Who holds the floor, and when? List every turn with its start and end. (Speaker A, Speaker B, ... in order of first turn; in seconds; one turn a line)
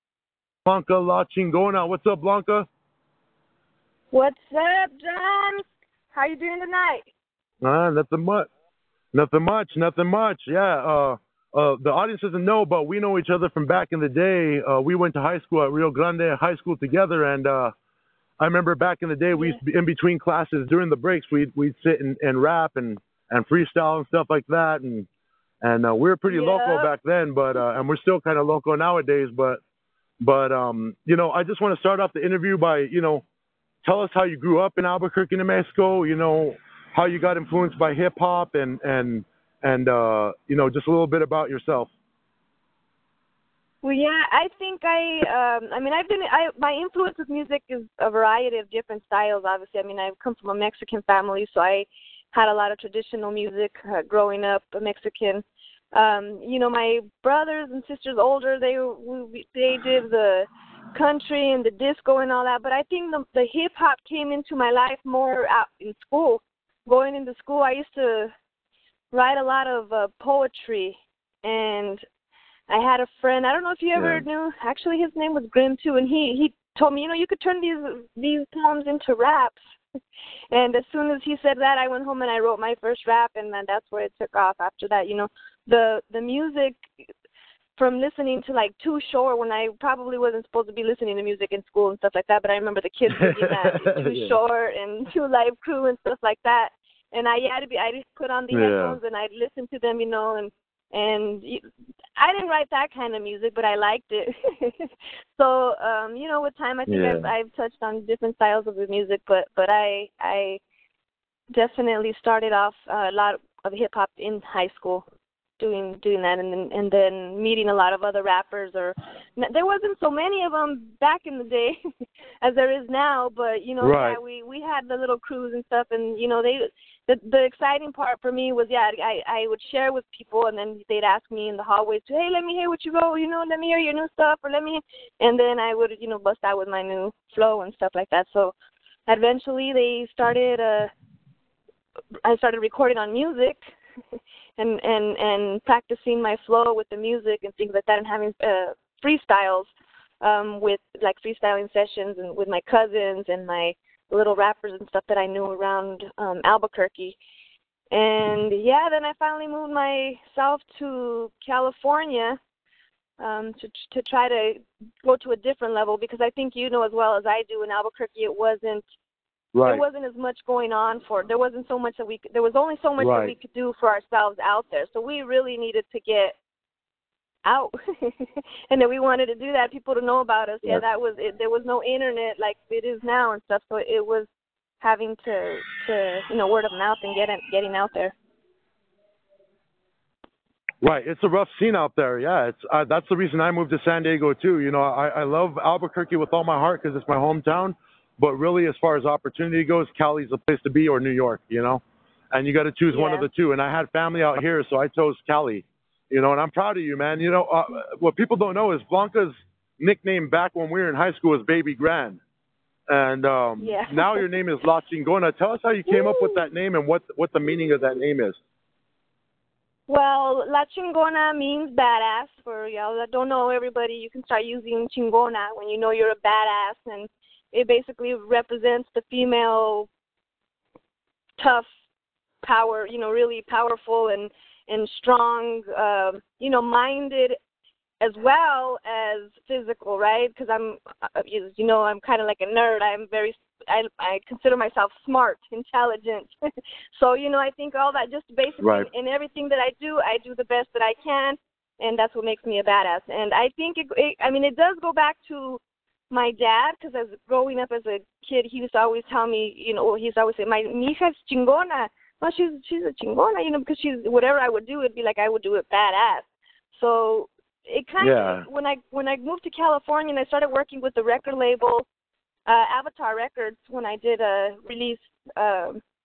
Speaker A: 0.7-2.7
Speaker B: 4.1-7.1
Speaker A: 7.6-8.5
Speaker A: 9.1-17.7
Speaker A: 18.4-25.1
Speaker A: 25.6-29.6
Speaker B: 26.3-26.9
Speaker A: 30.2-33.2
Speaker A: 33.8-41.9
Speaker B: 43.8-68.3
Speaker B: 69.1-72.0
Speaker B: 72.7-79.6
Speaker A: 74.0-74.2
Speaker B: 80.5-86.9
Speaker B: 87.8-101.6
Speaker A: 93.1-94.4
Speaker A: 98.5-99.0
Speaker B: 102.2-110.6
Speaker A: 106.9-107.3
Speaker B: 111.5-115.0
Speaker B: 115.6-121.8
Speaker B: 122.4-138.5
Speaker A: 123.8-124.2
Speaker B: 139.1-140.9
Speaker B: 142.2-143.6
Speaker B: 144.6-157.2
Speaker B: 157.9-162.4
Speaker B: 163.2-168.8
Speaker A: 169.5-169.8
Speaker B: 169.6-176.4
Speaker A: 173.0-173.3
Speaker B: 177.4-184.3
Speaker B: 184.8-188.2
Speaker A: 190.8-212.2
Speaker B: 202.9-203.3
Speaker A: 212.9-218.4
Speaker B: 213.6-214.2
Speaker B: 215.9-216.5
Speaker B: 219.9-229.9
Speaker B: 231.4-231.7
Speaker B: 232.4-237.4
Speaker B: 238.0-246.3
Speaker B: 246.9-271.9
Speaker A: 248.6-248.9
Speaker A: 268.0-268.5
Speaker B: 272.5-275.8